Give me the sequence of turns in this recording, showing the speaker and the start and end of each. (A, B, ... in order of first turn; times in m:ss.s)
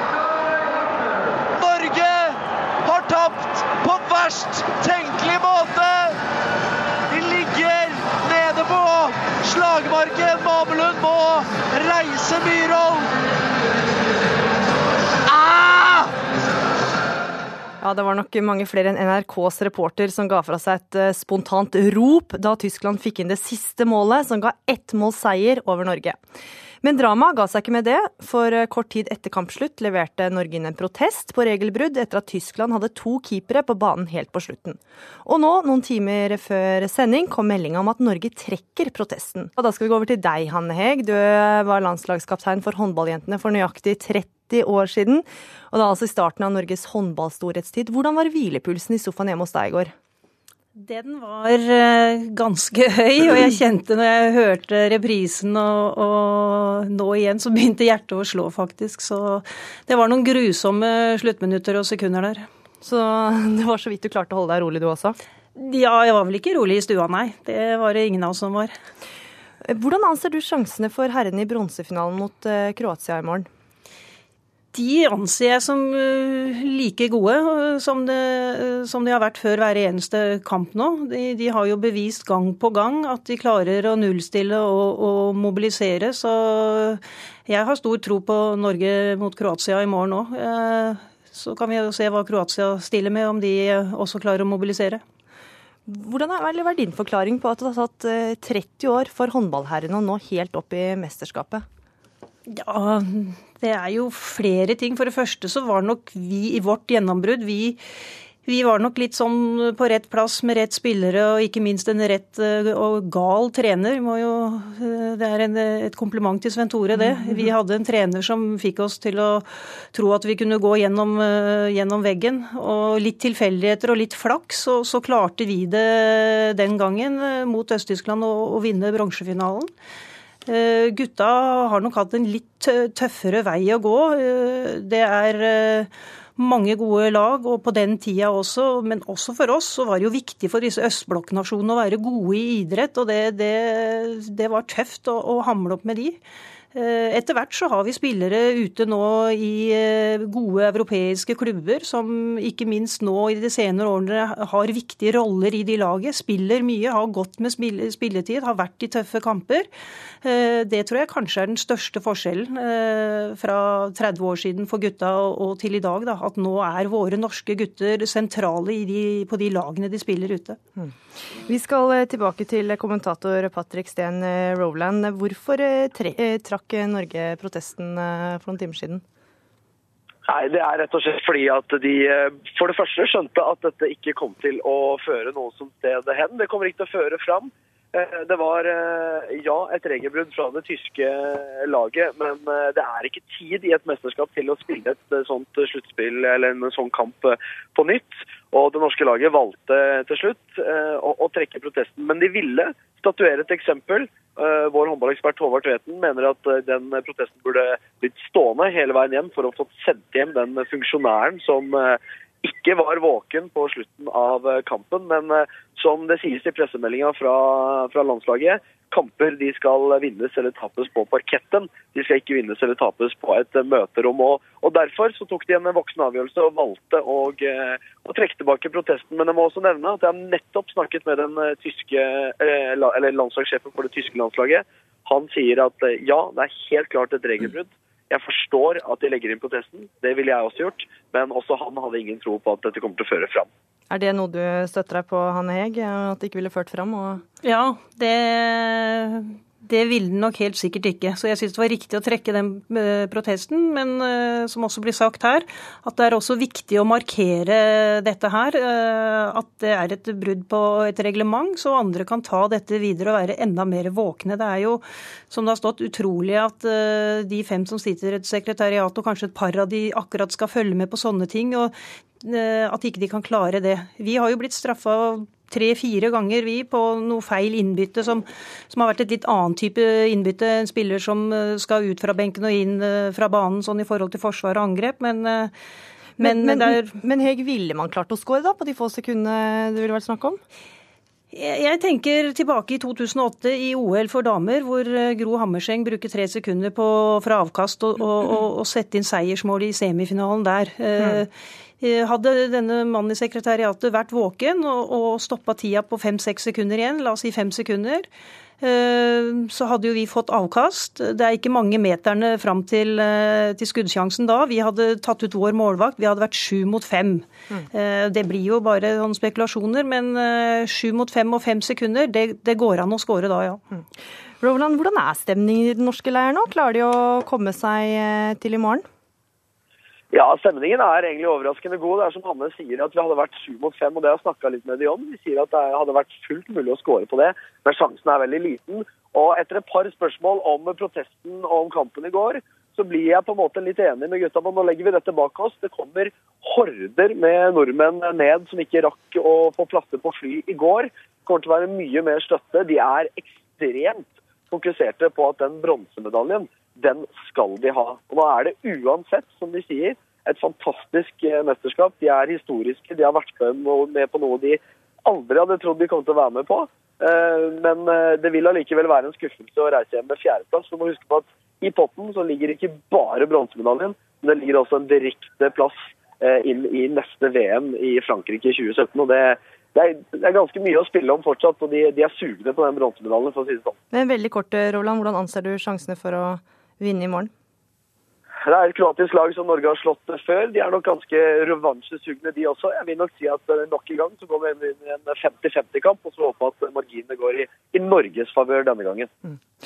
0:01.6-0:06.2 A
0:07.1-0:13.1 A
0:15.3-0:16.1 A
0:17.8-0:26.2 B
0:26.8-0:49.9 B
0:50.8-1:02.5 C
1:02.8-1:05.2 B
1:05.6-1:08.7 C
1:09.7-1:13.5 B
1:14.7-1:35.0 C
1:35.9-1:41.6 B
1:42.5-1:47.8 C
1:48.4-2:09.7 C
1:57.0-1:57.4 B
2:10.5-2:26.2 C
2:26.7-2:39.7 C
2:40.2-2:50.6 C
2:51.4-2:59.0 B
3:00.3-4:03.5 D
4:03.9-4:07.2 B
4:07.4-4:45.5 C
4:46.2-4:50.4 B
4:46.2-4:46.9 C
4:51.3-5:08.1 C
5:08.6-5:23.6 C
5:24.4-5:28.9 B
5:30.1-6:23.8 D
6:23.9-6:27.3 B
6:28.4-6:39.1 D